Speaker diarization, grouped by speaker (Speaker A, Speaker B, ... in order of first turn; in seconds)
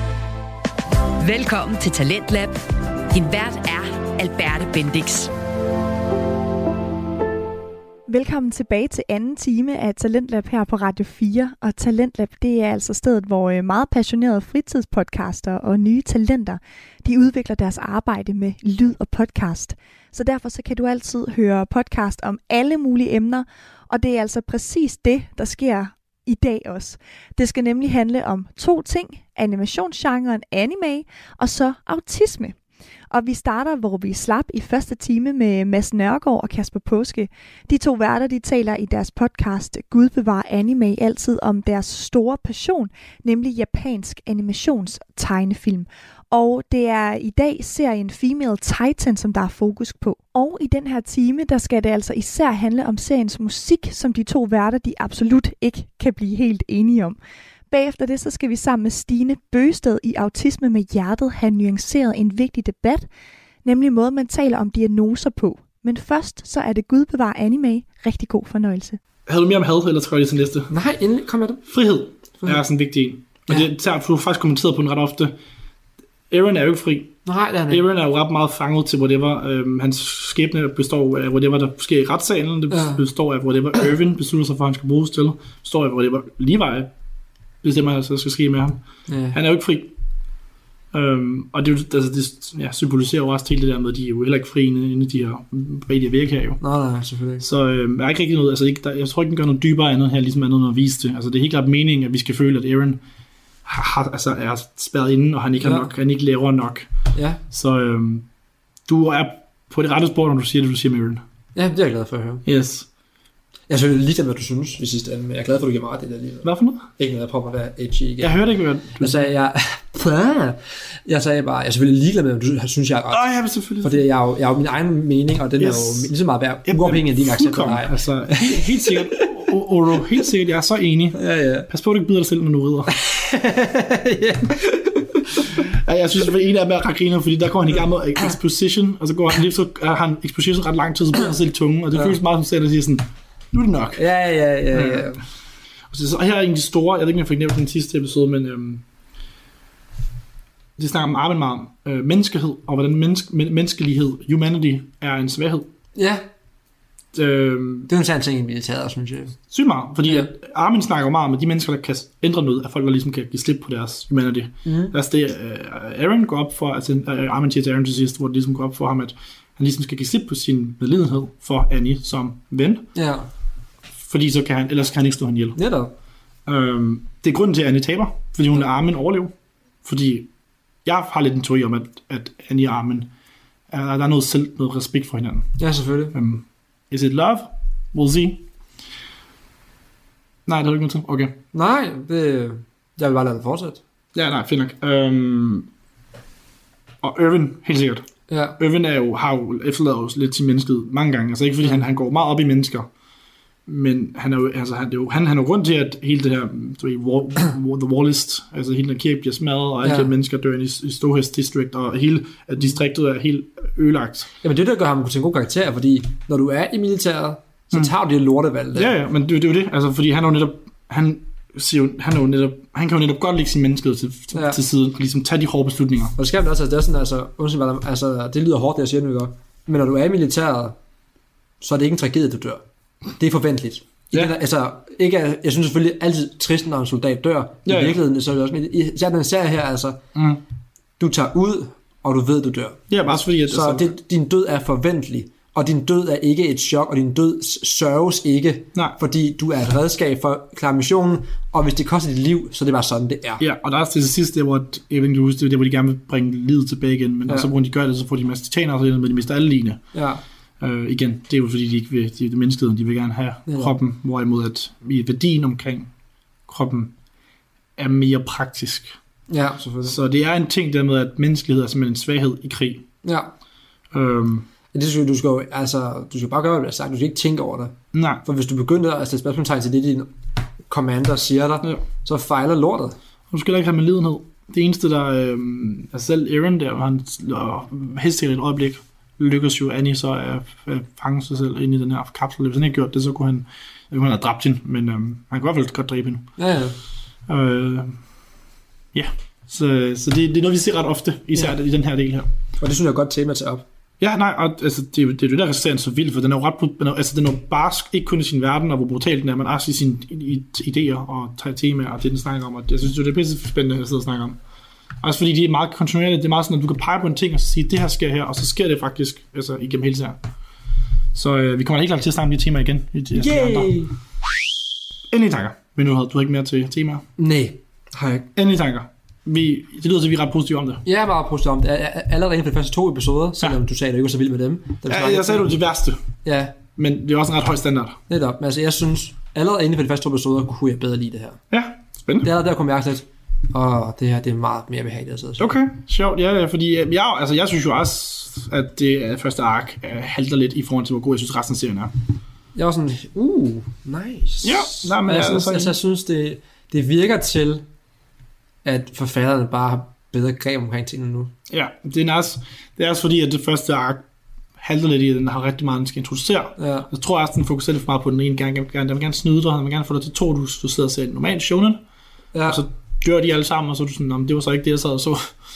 Speaker A: 1.2-5.3
Speaker B: 8.1-32.5, 33.1-57.2, 57.7-63.1, 63.6-69.0
Speaker C: 69.3-70.7, 71.7-75.3, 76.3-77.2, 77.7-86.9, 87.6-88.8, 89.3-89.9, 90.9-96.6, 97.4-103.0, 103.6-106.9, 107.5-108.2, 108.8-111.2, 112.5-112.9, 116.4-116.9, 118.2-119.3, 123.1-124.0, 125.6-126.1, 126.6-131.2, 131.7-132.9, 135.6-144.0, 144.7-145.1, 145.9-148.8, 150.8-155.7, 157.1-157.9, 159.5-172.9, 174.0-175.6, 176.4-179.3, 179.8-180.3, 180.8-183.1, 183.7-185.6, 186.1-188.5, 190.4-191.3, 194.1-195.7, 197.0-198.1, 198.6-202.9, 203.7-214.3, 218.7-226.1, 237.7-238.0, 240.1-240.4, 242.9-243.9, 253.4-259.8, 260.6-265.9, 266.5-266.9, 267.8-268.9, 269.8-272.8, 273.9-274.5, 277.9-278.2, 283.3-296.3, 297.3-298.0, 298.9-302.3, 304.0-314.4, 315.0-320.2, 321.1-323.7, 325.1-327.0, 328.4-330.8, 334.9-336.0, 336.8-338.0, 341.5-342.3, 345.4-351.9, 354.4-355.8, 361.5-364.0, 364.6-371.8, 372.5-375.3
Speaker D: 70.7-71.6, 77.2-77.8, 82.7-83.0, 89.1-89.4, 96.6-97.4, 105.6-105.9, 107.1-107.4, 111.5-112.4, 113.7-118.4, 118.9-123.2, 123.8-129.3, 131.1-131.7, 132.9-135.7, 143.9-145.2, 155.9-156.2, 157.9-159.3, 160.1-160.3, 164.6-164.9, 172.9-173.3, 175.6-175.9, 185.6-186.2, 191.5-193.8, 198.3-198.6, 209.8-210.1, 214.4-218.9, 224.3-224.6, 226.2-230.8, 231.6-232.6, 233.2-240.0, 241.0-242.8, 243.4-253.4, 259.9-260.2, 263.5-263.8, 269.3-270.0, 273.0-273.3, 274.7-280.1, 280.7-282.9, 296.4-296.8, 302.6-303.6, 323.1-323.9, 327.2-328.3, 330.8-335.5, 336.2-336.5, 338.1-341.4, 342.2-345.5, 352.5-357.6, 358.6-361.3, 366.6-366.9, 372.3-372.6